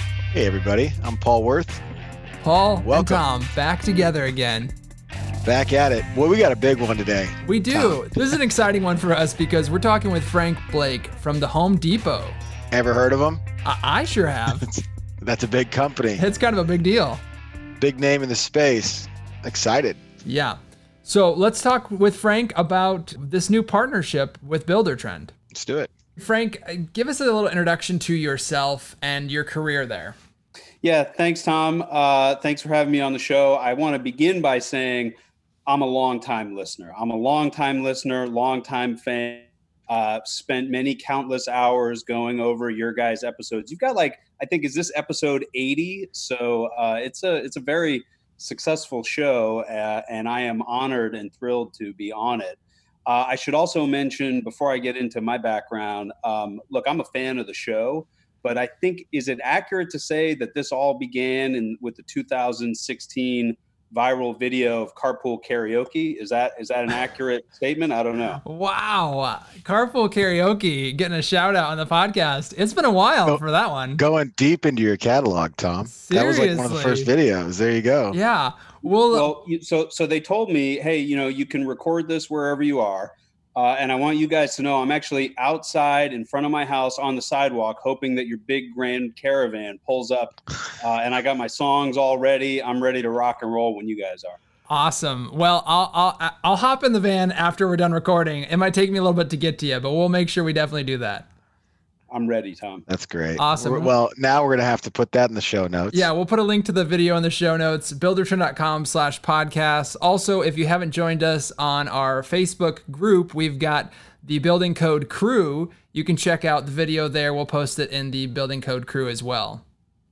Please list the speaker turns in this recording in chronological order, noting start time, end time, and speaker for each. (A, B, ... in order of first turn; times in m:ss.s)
0:00.3-0:01.8 A
0:02.4-0:04.7 B
0:02.8-0:03.2 A
0:05.4-0:08.2 A
0:07.4-0:12.4 B
0:12.7-0:13.4 A
0:13.6-0:14.7 B
0:14.6-0:16.2 A
0:16.2-0:17.2 B
0:17.8-0:20.0 A
0:20.2-0:25.3 B
0:25.5-0:25.9 A
0:26.2-0:30.2 B
0:30.8-0:35.1 C
0:35.6-1:08.4 C
1:08.4-1:14.0 B
1:14.0-1:18.2 A
1:15.9-1:17.1 B
1:18.1-1:19.3 B
1:19.1-1:34.4 C
1:34.7-1:41.3 B
1:42.1-1:42.9 C
1:42.9-1:46.1 A
1:43.4-1:43.9 B
1:45.9-1:59.6 B